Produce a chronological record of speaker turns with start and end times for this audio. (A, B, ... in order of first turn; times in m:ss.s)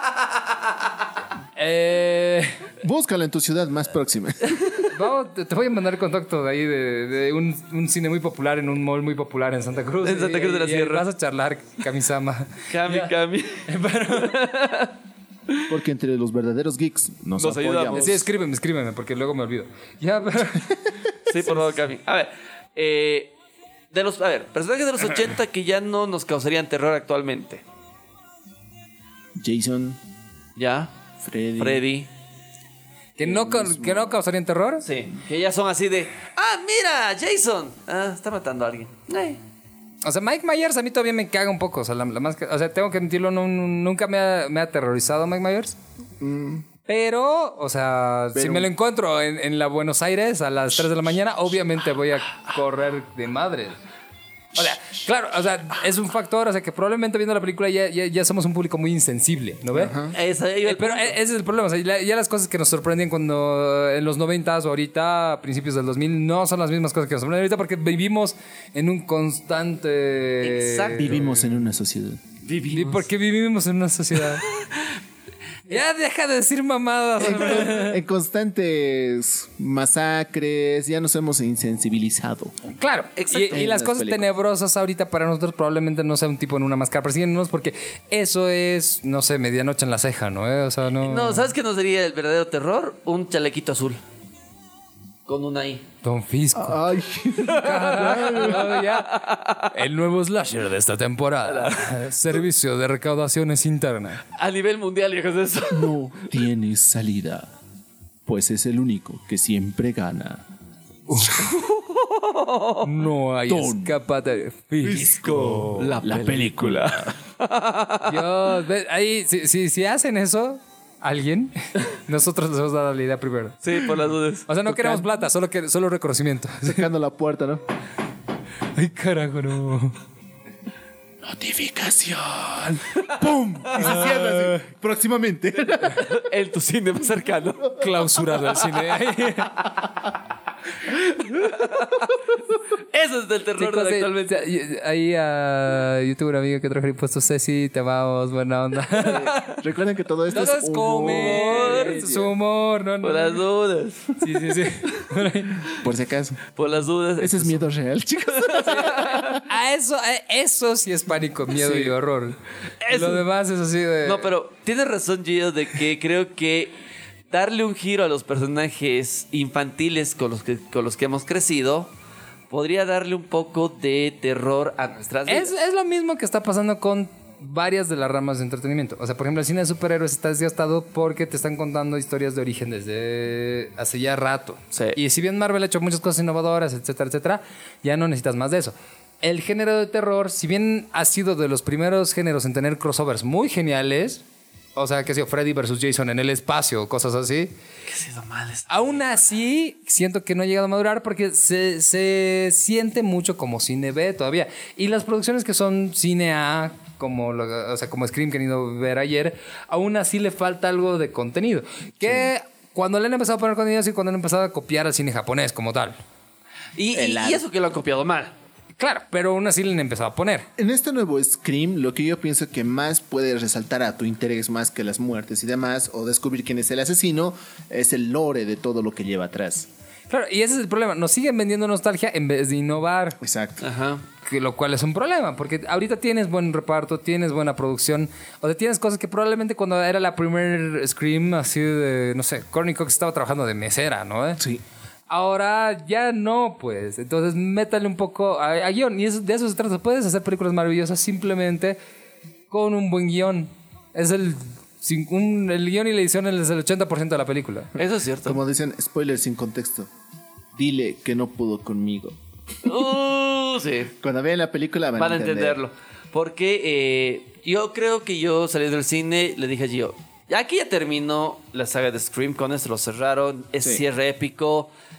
0:01.6-0:02.6 A
0:02.8-0:04.8 B
0:04.9-0:13.1 A
0:10.0-0:11.0 C
0:12.7-0:14.9 C
0:13.7-0:14.4 A
0:15.7-0:18.3 B
0:17.4-0:18.1 C
0:18.0-0:21.7 A
0:21.3-0:23.3 C
0:23.9-0:27.6 C
0:29.4-0:30.0 B
0:30.6-0:30.9 C
0:31.2-0:31.8 B
0:31.6-0:32.1 C
0:33.2-0:34.9 A
0:33.2-0:34.2 B
0:34.8-0:39.4 C
0:40.0-0:45.8 A
0:46.2-0:46.7 B
0:46.9-0:53.8 A
0:48.3-0:48.7 B
0:54.6-1:00.0 A
0:59.7-1:00.1 B
1:00.1-1:01.2 C
1:00.7-1:11.5 A
1:10.4-1:11.2 C
1:11.0-1:12.2 B
1:12.4-1:13.1 C
1:12.7-1:14.5 A
1:14.5-1:14.9 C
1:15.7-1:18.0 A
1:17.2-1:22.5 B
1:22.8-1:31.5 A
1:23.2-1:23.6 C
1:23.5-1:24.2 B
1:31.0-1:34.0 C
1:35.3-1:35.8 C
1:36.0-1:36.8 A
1:36.6-1:38.7 B
1:37.5-1:44.2 A
1:37.5-1:39.7 C
1:41.5-1:42.0 C
1:44.4-1:45.9 C
1:45.7-1:47.5 B
1:48.3-1:50.4 B
1:51.1-1:51.5 A
1:51.4-1:52.9 C
1:52.8-1:55.2 A
1:53.5-1:54.0 B
1:54.8-1:57.2 B
1:54.9-1:58.2 C
1:58.0-2:03.6 A
2:03.6-2:04.5 C
2:04.5-2:06.9 A
2:04.7-2:05.1 B
2:06.6-2:07.6 B
2:08.8-2:10.0 A
2:11.2-2:16.1 B
2:13.8-2:14.6 A
2:15.9-2:17.8 C
2:17.8-2:19.6 A
2:20.9-2:22.2 C
2:22.9-2:24.4 C
2:23.6-2:29.5 A
2:29.0-2:29.5 C
2:29.0-2:32.3 B
2:30.3-2:33.4 A
2:31.0-2:32.2 C
2:33.0-2:34.2 C
2:34.2-2:35.7 A
2:34.8-2:35.1 C
2:35.8-2:36.4 B
2:36.5-2:37.7 C
2:37.2-2:39.4 B
2:38.3-2:39.4 C
2:39.4-2:44.3 A
2:41.6-2:42.0 C
2:42.8-2:43.2 C
2:44.0-2:46.7 C
2:47.3-2:51.9 C
2:52.5-2:55.5 C
2:55.3-3:14.2 A
3:14.8-3:17.5 A
3:17.9-3:19.0 C
3:18.7-3:36.0 A
3:32.0-3:32.3 B
3:36.8-3:38.3 C
3:36.9-3:37.4 B
3:38.8-3:40.5 A
3:40.6-3:49.7 B
3:50.1-3:53.2 A
3:53.2-3:53.7 B
3:53.6-3:54.0 C
3:54.2-4:04.4 A
4:05.1-4:11.8 A
4:12.5-4:17.7 A
4:17.8-4:18.4 C
4:18.2-4:19.9 B
4:20.6-4:22.2 B
4:22.6-4:23.9 C
4:24.0-4:25.6 B
4:25.0-4:34.7 C